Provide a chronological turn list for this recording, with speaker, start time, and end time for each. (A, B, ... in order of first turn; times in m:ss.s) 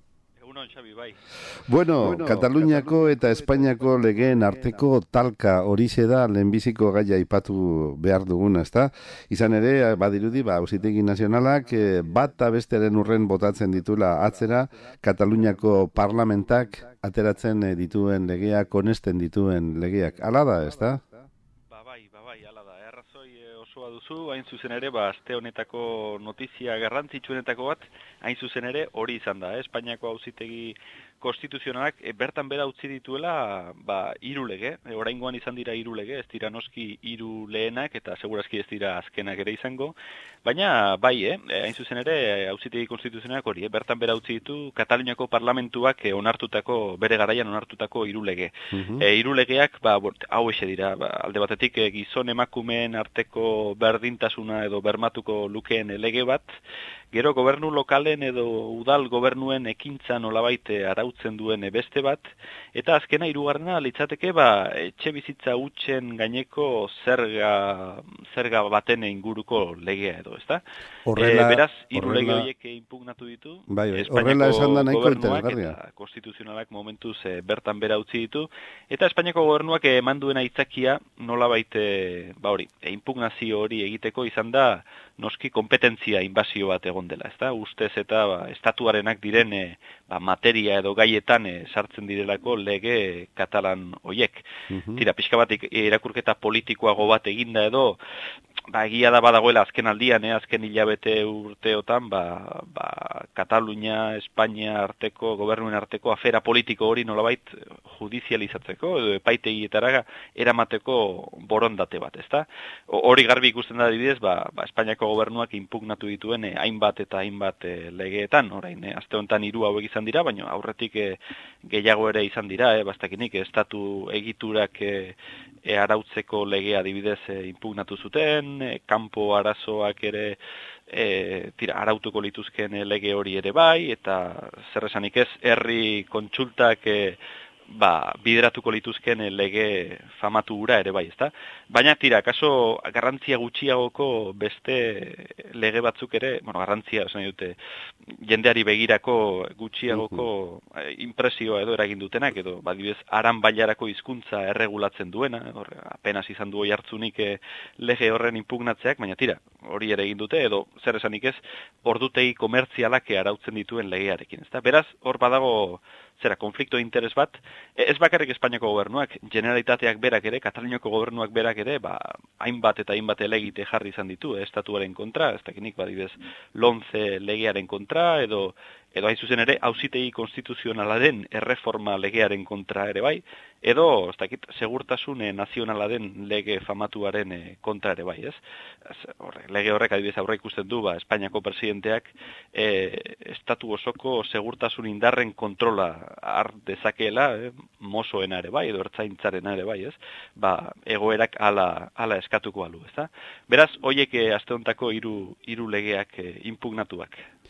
0:00.4-0:01.2 A
0:01.6-0:21.0 B
0:21.7-0:56.6 A
0:48.7-0:49.1 B
0:57.1-1:10.6 A
1:11.1-1:12.5 B
1:11.2-1:34.4 A
1:13.7-1:15.8 B
1:34.7-1:35.0 B
1:35.0-1:38.0 A
1:38.7-2:10.4 A
2:10.9-2:27.6 A
2:28.1-3:27.2 A
2:29.9-2:30.2 B